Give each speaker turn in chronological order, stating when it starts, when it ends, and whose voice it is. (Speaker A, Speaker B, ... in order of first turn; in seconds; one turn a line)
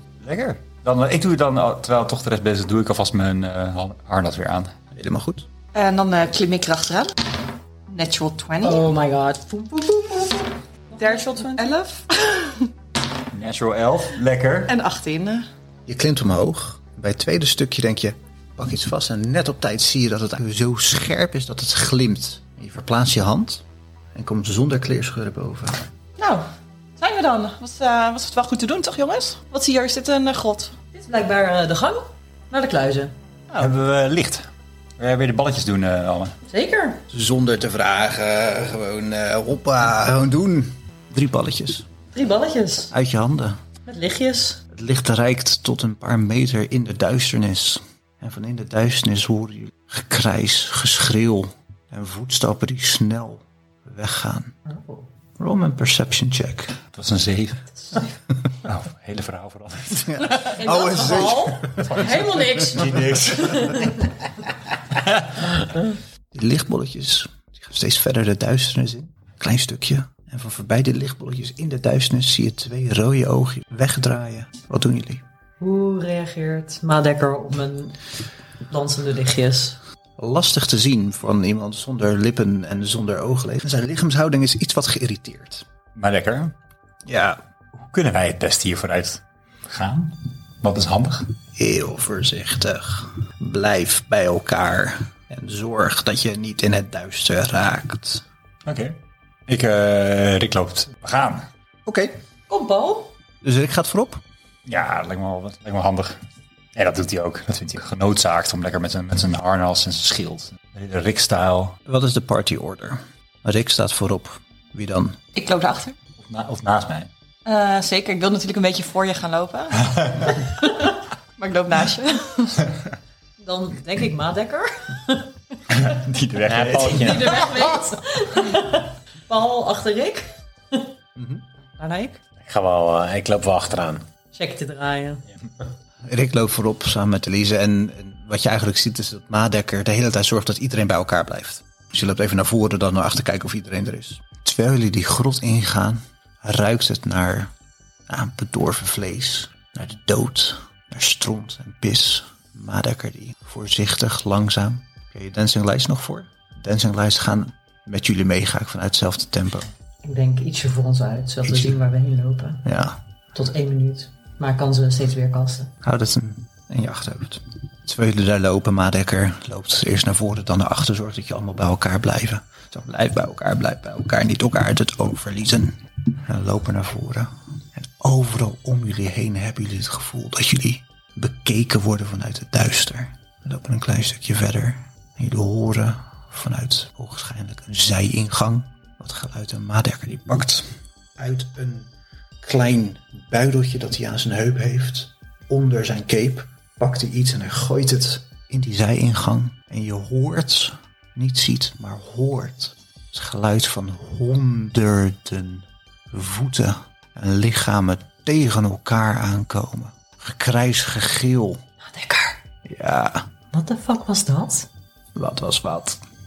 Speaker A: 0.2-4.8
Speaker B: 4.9-5.5
Speaker C: 5.7-7.1
Speaker C: 7.9-8.9
Speaker D: 8.6-11.7
Speaker C: 11.0-12.7
Speaker A: 13.3-14.7
Speaker C: 14.7-15.5
Speaker B: 15.9-25.9
Speaker C: 26.2-26.4
Speaker C: 27.0-30.8
Speaker D: 30.9-33.1
Speaker A: 33.5-34.5
Speaker A: 35.0-36.4
Speaker D: 36.5-37.0
Speaker B: 37.1-41.9
Speaker D: 42.1-42.9
Speaker B: 42.9-43.6
Speaker D: 43.9-44.6
Speaker B: 44.7-54.6
Speaker D: 54.7-55.1
Speaker B: 55.4-56.8
Speaker A: 56.9-60.5
Speaker B: 60.1-61.9
Speaker D: 60.4-63.9
Speaker A: 61.6-63.9
Speaker B: 66.3-75.2
Speaker D: 75.6-78.0
Speaker D: 78.7-79.8
Speaker B: 80.2-85.6
Speaker A: 86.0-86.5
Speaker B: 87.0-87.4
Speaker A: 87.8-91.3
Speaker B: 91.6-98.2
Speaker A: 98.7-101.5
Speaker B: 101.9-102.2
Speaker D: 102.5-103.1
Speaker B: 103.4-104.2
Speaker A: 104.7-106.2
Speaker A: 106.8-111.8
Speaker B: 111.9-115.2
Speaker C: 115.3-116.0
Speaker A: 116.2-117.1
Speaker C: 117.5-122.6
Speaker A: 119.8-120.3
Speaker D: 123.4-125.3
Speaker A: 125.7-127.7
Speaker E: 126.4-127.5
Speaker D: 126.9-130.9
Speaker B: 131.2-131.4
Speaker D: 131.8-132.2
Speaker E: 132.4-134.1
Speaker D: 134.3-135.2
Speaker B: 136.0-147.5
Speaker B: 148.1-159.7
Speaker D: 160.0-162.6
Speaker B: 161.5-161.7
Speaker B: 162.6-163.0
Speaker D: 163.3-165.7
Speaker B: 165.8-191.9
Speaker B: 192.4-211.6
Speaker D: 211.9-212.4
Speaker B: 212.7-213.3
Speaker D: 213.5-214.7
Speaker B: 215.1-216.0